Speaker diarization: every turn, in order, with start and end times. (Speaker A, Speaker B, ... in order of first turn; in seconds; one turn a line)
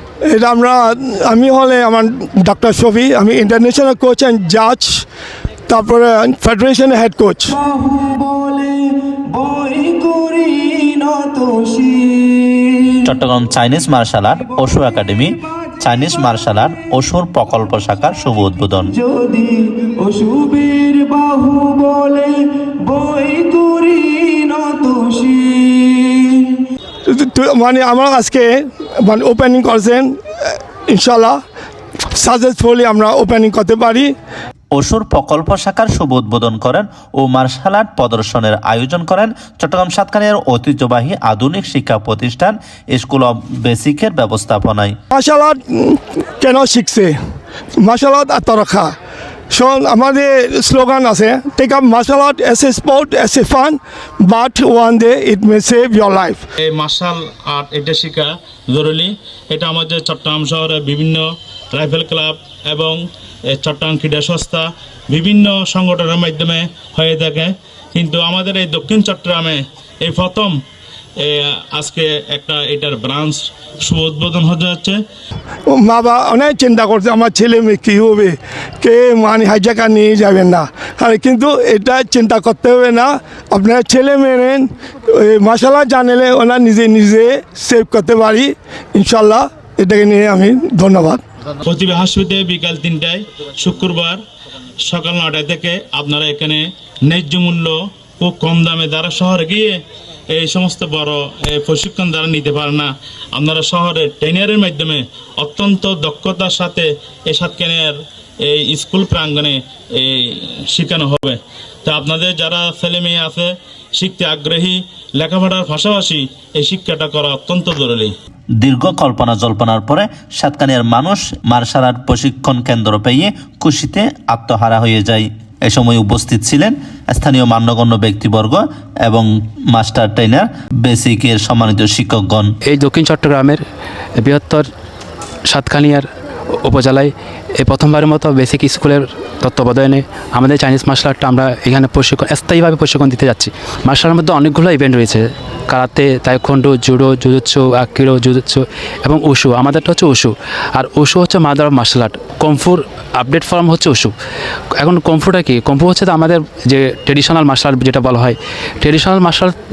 Speaker A: 0.3-5.0
Speaker A: 5.7-7.6
Speaker B: 7.6-13.0
Speaker C: 13.1-15.3
Speaker C: 15.8-18.9
Speaker B: 19.0-26.6
Speaker A: 27.1-28.5
Speaker A: 29.1-30.1
Speaker A: 30.9-31.4
Speaker A: 32.2-34.1
Speaker C: 34.7-45.0
Speaker A: 45.1-47.1
Speaker A: 47.8-48.9
Speaker A: 49.5-56.4
Speaker D: 56.6-63.0
Speaker D: 63.5-70.6
Speaker D: 71.2-75.0
Speaker A: 75.7-91.2
Speaker D: 91.6-94.2
Speaker D: 94.9-99.8
Speaker D: 100.3-118.1
Speaker C: 118.6-132.5
Speaker E: 132.7-133.6
Speaker E: 134.2-134.7
Speaker E: 135.5-136.1
Speaker E: 136.6-154.1
Speaker E: 154.8-159.5